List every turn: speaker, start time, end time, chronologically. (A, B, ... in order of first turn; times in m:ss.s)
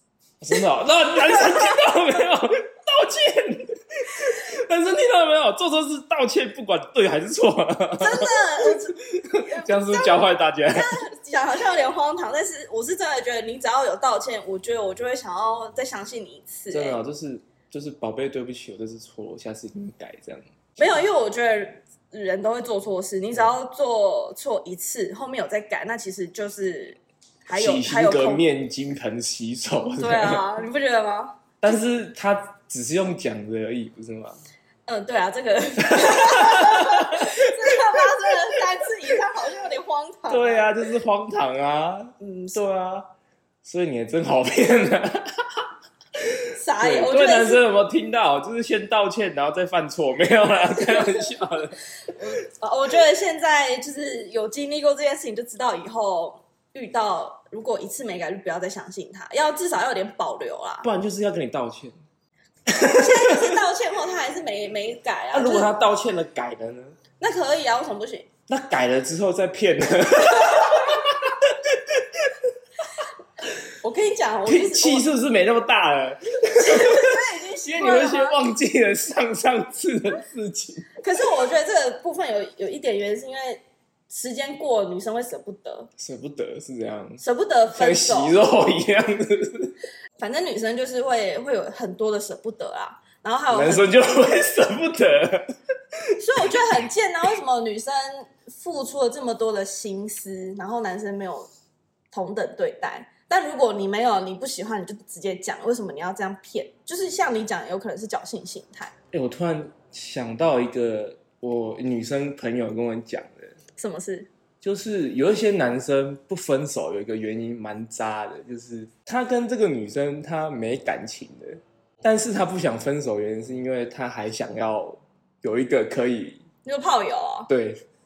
0:00.4-0:10.9 A
0:01.3-0:01.8 B
0:08.0-0:17.0 B
0:16.7-0:20.4 A
0:20.8-0:28.5 B
0:27.5-0:30.4 A
0:30.0-0:31.7 B
0:31.6-0:34.4 A
0:34.9-0:40.7 B
0:35.9-0:37.3 A
0:40.3-0:43.1 A
0:42.2-0:42.7 B
0:43.6-0:45.7 A
0:46.2-0:51.8 A
0:46.6-0:47.6 B
0:50.7-0:51.3 B
0:52.0-1:00.9 B
1:00.8-1:02.0 A
1:02.7-1:03.5 A
1:02.8-1:05.7 B
1:05.3-1:07.0 A
1:07.2-1:08.3 B
1:08.5-1:12.3 A
1:10.5-1:10.8 B
1:13.8-1:15.1 B
1:14.5-1:20.9 A
1:16.6-1:18.4 B
1:21.0-1:25.9 B
1:26.0-1:27.2 A
1:27.2-1:28.4 B
1:27.7-1:29.7 A
1:30.2-1:34.0 B
1:33.5-1:35.5 A
1:36.1-1:36.6 A
1:36.2-1:41.5 B
1:42.1-1:48.9 B
1:49.1-1:53.6 A
1:53.8-1:54.3 B
1:54.6-2:06.4 A
2:06.6-2:07.5 B
2:07.5-2:07.8 A